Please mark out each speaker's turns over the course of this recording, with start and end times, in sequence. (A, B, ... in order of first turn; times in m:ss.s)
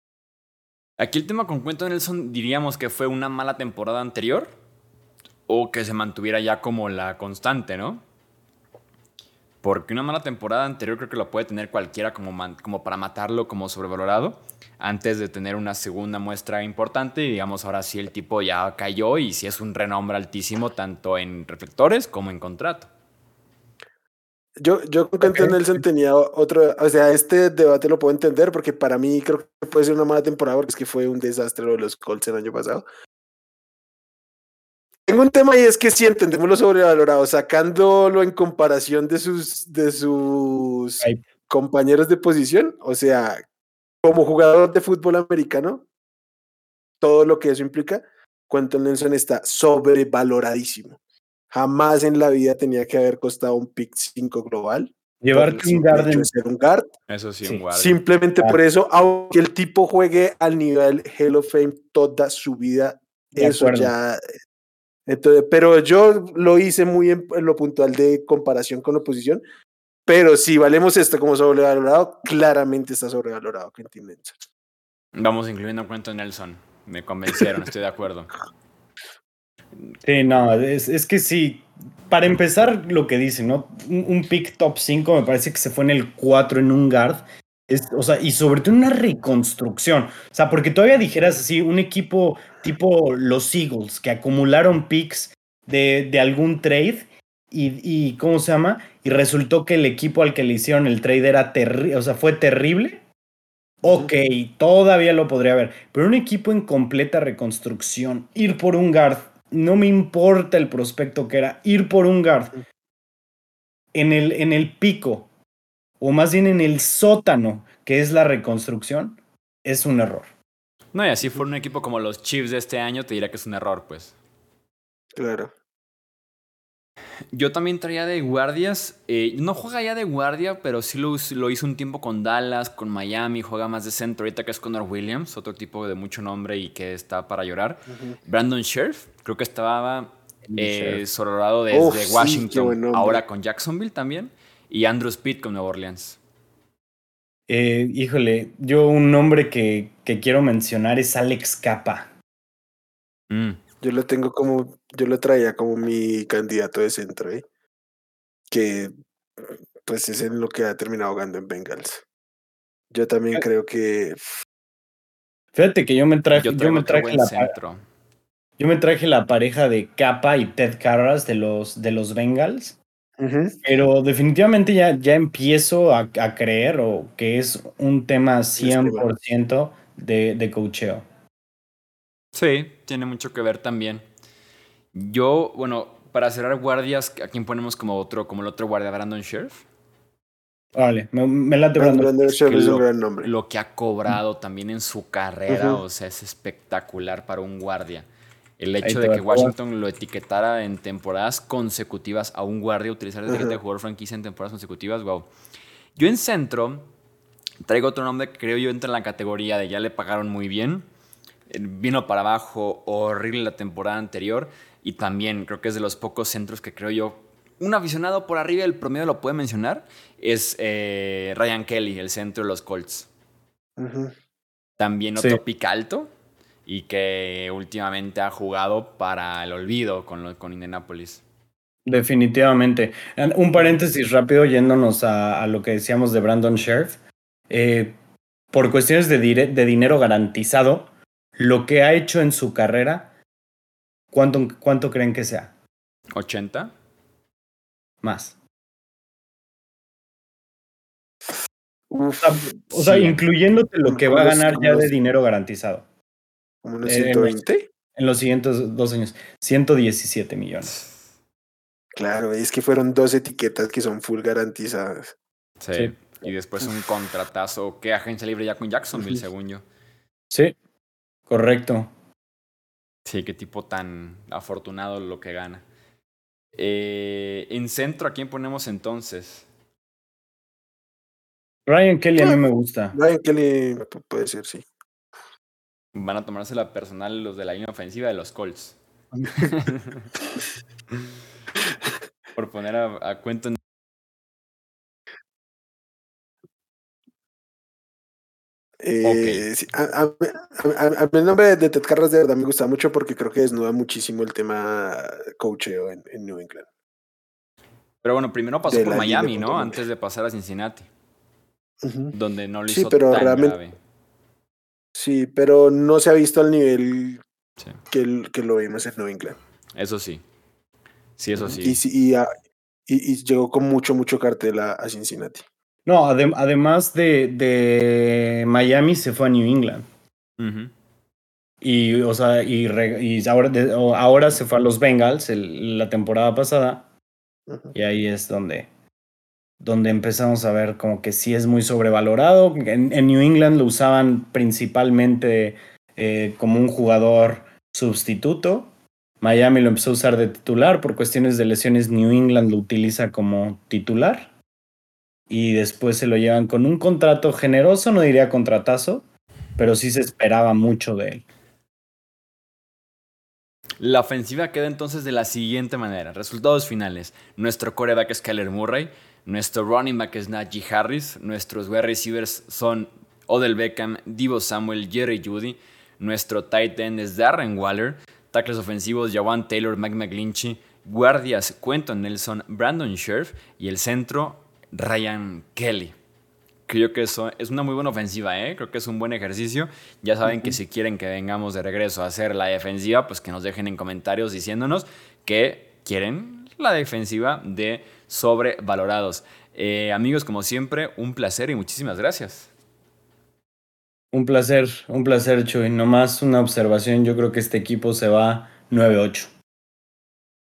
0:01.0-0:04.5 A
0:05.5-0:08.0 A
0:09.6-0:22.9 A
0:24.6-0:32.8 B
0:35.0-0:43.4 B
0:44.0-0:45.8 B
0:47.0-0:51.0 B
0:51.5-0:56.9 B
0:55.2-0:56.3 C
0:57.1-0:58.0 A
0:57.7-1:04.2 B
1:03.4-1:03.9 C
1:05.1-1:09.4 B
1:10.0-1:14.3 B
1:15.1-1:18.3 A
1:20.0-1:43.0 C
1:43.8-1:52.5 C
1:53.9-1:55.3 C
1:56.0-2:00.3 C
2:00.9-2:04.1 A
2:05.1-2:05.5 B
2:07.3-2:26.2 A
2:17.9-2:18.2 B
2:20.5-2:21.0 C
2:21.7-2:23.2 B
2:27.5-2:32.1 C
2:33.3-2:33.6 A
2:33.8-2:37.4 B
2:38.5-2:38.9 B
2:39.8-2:42.0 B
2:42.9-2:44.3 B
2:45.5-2:47.5 C
2:46.3-2:47.8 A
2:48.6-2:52.8 C
2:53.2-2:53.6 B
2:53.6-3:01.0 C
2:58.6-2:59.1 B
3:02.3-3:04.0 A
3:04.9-3:09.6 A
3:10.7-3:12.3 C
3:11.8-3:13.3 B
3:12.4-3:18.1 A
3:15.5-3:15.8 B
3:18.6-3:25.3 A
3:18.8-3:19.5 C
3:23.3-3:23.6 B
3:26.0-3:26.9 A
3:27.6-3:30.9 A
3:31.5-3:43.1 A
3:43.8-3:44.1 B
3:44.8-3:46.1 A
3:45.2-3:45.4 C
3:46.6-3:51.2 A
3:51.8-3:57.0 C
3:57.5-3:58.0 C
3:58.5-4:03.1 C
4:04.1-4:05.5 C
4:06.2-4:06.7 A
4:08.0-4:08.3 C
4:11.9-4:12.6 B
4:12.2-4:15.8 C
4:12.7-4:13.2 A
4:13.9-4:14.9 B
4:16.6-4:17.7 B
4:16.8-4:17.4 C
4:17.9-4:20.8 C
4:21.9-4:25.1 B
4:25.6-4:29.6 A
4:30.3-4:30.6 C
4:31.3-4:31.9 C
4:33.0-4:35.6 A
4:36.5-4:39.5 A
4:41.7-4:43.0 C
4:42.2-4:42.4 B
4:42.9-4:44.6 B
4:45.9-4:48.8 A
4:49.3-4:50.1 A
4:52.4-4:53.6 A
4:58.8-5:06.7 B
4:59.0-4:59.4 A
5:08.0-5:10.9 A
5:08.7-5:09.8 B
5:11.8-5:12.1 B
5:12.1-5:13.8 A
5:12.7-5:13.6 B
5:14.9-5:17.2 B
5:17.9-5:19.4 B
5:19.8-5:20.2 A
5:21.2-5:21.8 A
5:21.4-5:22.3 B
5:22.9-5:25.4 B
5:25.8-5:29.8 C
5:30.4-5:30.7 A
5:31.6-5:36.8 C
5:37.5-5:37.7 B
5:37.7-5:38.7 C
5:39.6-5:54.3 C
5:55.3-5:59.0 C
5:59.6-6:01.2 C
6:03.8-6:26.0 A
6:26.7-6:42.5 A
6:30.3-6:30.5 B
6:44.1-6:49.3 C